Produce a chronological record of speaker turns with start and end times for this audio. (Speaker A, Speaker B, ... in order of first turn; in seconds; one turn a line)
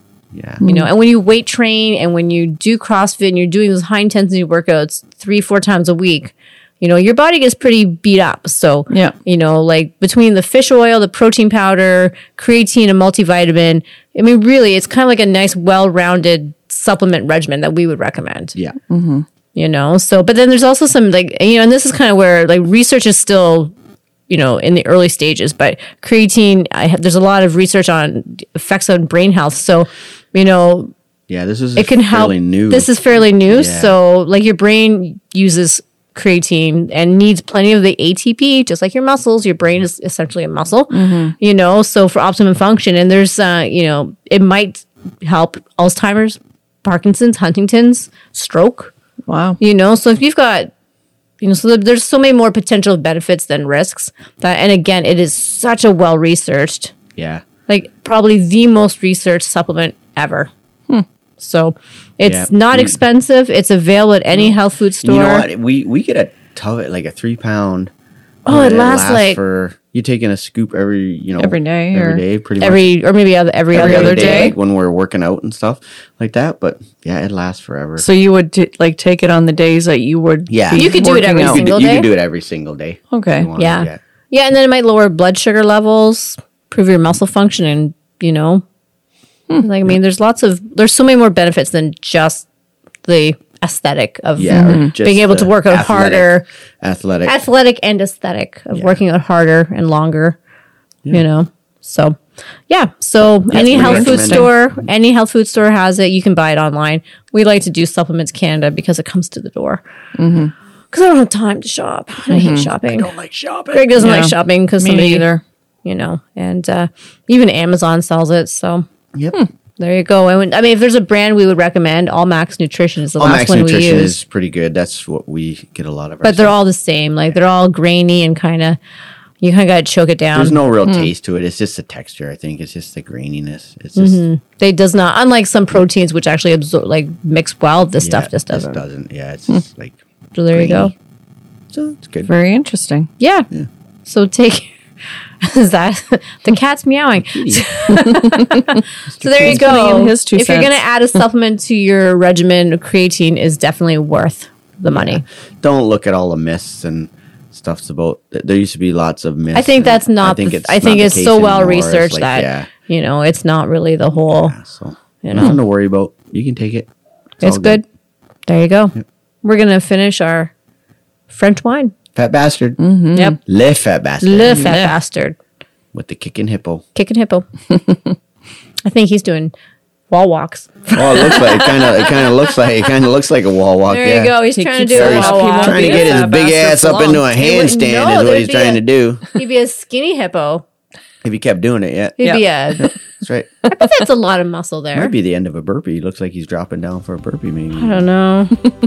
Speaker A: 0.3-0.6
Speaker B: 0.6-0.9
Speaker C: 0.6-18.6
Speaker B: 8.9-9.2
Speaker B: 18.9-19.2
Speaker C: 19.6-23.7
Speaker C: 24.3-30.9
Speaker A: 31.3-33.9
Speaker C: 31.8-48.9
Speaker B: 40.9-41.4
Speaker B: 49.3-49.6
Speaker C: 49.6-50.7
Speaker C: 51.4-56.9
Speaker A: 57.2-57.4
Speaker C: 57.7-60.5
Speaker C: 61.4-65.5
Speaker A: 62.2-63.0
Speaker A: 65.0-67.9
Speaker C: 68.5-69.4
Speaker A: 68.5-72.9
Speaker B: 71.4-72.2
Speaker C: 72.6-74.6
Speaker A: 73.7-78.1
Speaker B: 73.7-74.5
Speaker B: 78.0-81.6
Speaker A: 80.5-84.0
Speaker C: 80.7-82.1
Speaker B: 83.1-83.5
Speaker C: 83.6-88.6
Speaker C: 89.6-92.5
Speaker C: 93.0-96.5
Speaker A: 94.4-97.4
Speaker B: 94.5-94.9
Speaker C: 97.3-100.4
Speaker A: 98.7-99.0
Speaker C: 101.1-102.2
Speaker C: 102.7-109.8
Speaker B: 103.5-104.5
Speaker A: 103.5-104.5
Speaker B: 110.2-110.5
Speaker C: 110.9-113.1
Speaker B: 112.3-112.7
Speaker A: 112.4-114.1
Speaker C: 113.7-115.3
Speaker B: 114.0-115.4
Speaker C: 115.8-118.8
Speaker A: 119.1-119.4
Speaker C: 119.8-124.2
Speaker A: 123.2-126.6
Speaker C: 126.2-128.8
Speaker C: 129.4-130.6
Speaker A: 130.3-134.2
Speaker B: 130.8-131.1
Speaker C: 134.0-138.8
Speaker A: 138.0-140.0
Speaker C: 140.3-140.9
Speaker A: 140.5-140.9
Speaker A: 141.7-142.3
Speaker B: 142.2-143.1
Speaker C: 143.2-143.5
Speaker C: 144.1-144.7
Speaker C: 145.4-155.2
Speaker A: 147.2-147.7
Speaker A: 149.1-149.8
Speaker B: 149.4-150.8
Speaker A: 154.9-162.7
Speaker C: 159.5-164.5
Speaker A: 164.2-166.9
Speaker C: 165.2-165.6
Speaker C: 167.4-167.8
Speaker A: 167.4-167.8
Speaker C: 168.5-170.5
Speaker C: 171.3-171.9
Speaker A: 172.2-172.8
Speaker B: 172.8-173.4
Speaker A: 173.5-174.8
Speaker C: 174.2-175.4
Speaker B: 174.5-174.8
Speaker A: 175.9-176.8
Speaker C: 176.9-177.5
Speaker C: 178.8-179.5
Speaker C: 180.1-182.7
Speaker A: 181.0-184.4
Speaker C: 183.9-190.7
Speaker B: 184.6-187.2
Speaker A: 184.9-189.2
Speaker A: 191.2-192.2
Speaker C: 192.2-192.9
Speaker B: 192.2-193.0
Speaker A: 192.8-193.5
Speaker C: 193.7-195.1
Speaker A: 194.9-198.1
Speaker C: 197.8-198.6